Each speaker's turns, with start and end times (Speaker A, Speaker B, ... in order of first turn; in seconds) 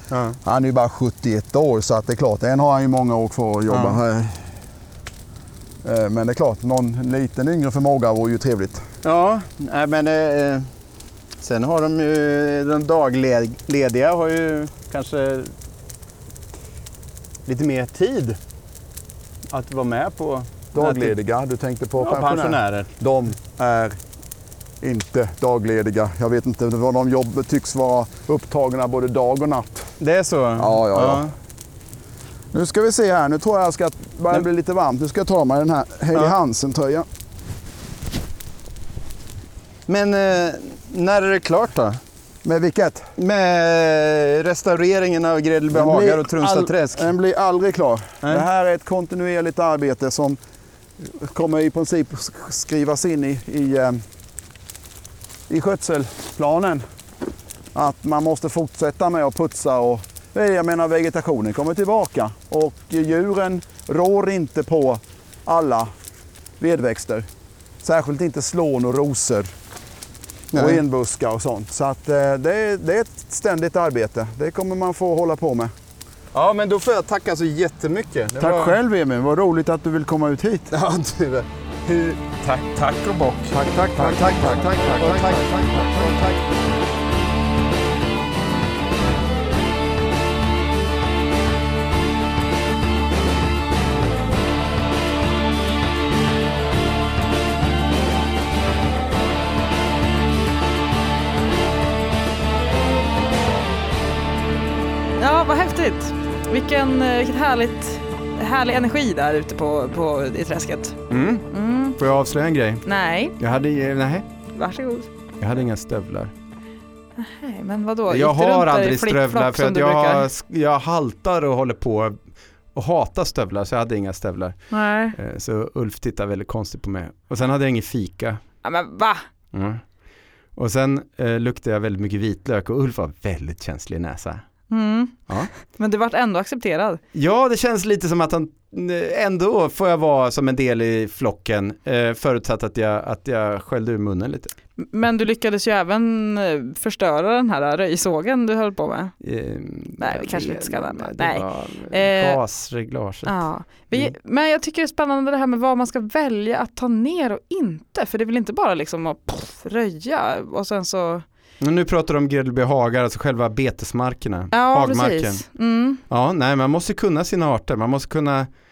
Speaker A: 0.1-0.4, 3.7-4.0, 9.0-10.7, 11.4-15.5, 17.5-18.4, 19.5-21.1, 22.0-22.9, 30.0-31.3, 39.9-42.0, 43.2-47.1, 70.5-70.8, 76.3-78.8, 80.7-86.4
Speaker B: 0.4-4.5, 5.8-8.9, 20.7-24.0, 24.8-29.9, 30.6-31.3, 32.5-37.1, 42.4-43.1, 45.7-50.4, 51.0-54.0, 55.5-56.8, 57.7-65.9, 66.6-67.3, 67.8-69.5, 70.5-75.7, 78.4-80.7, 84.0-84.6
Speaker C: 83.9-85.8, 111.1-111.5, 112.0-112.8, 113.4-114.3, 115.4-116.3, 118.1-122.2, 122.7-124.6, 125.1-128.4, 129.5-129.8, 130.6-134.4, 137.1-144.5, 149.2-154.1, 161.6-165.4, 166.1-168.5
Speaker D: 105.2-111.0, 111.5-112.0, 112.8-113.4, 114.5-115.1, 117.2-120.3, 124.7-125.2, 128.6-129.2, 134.7-137.0, 144.8-149.2, 150.0-152.4, 153.3-161.2, 164.5-166.0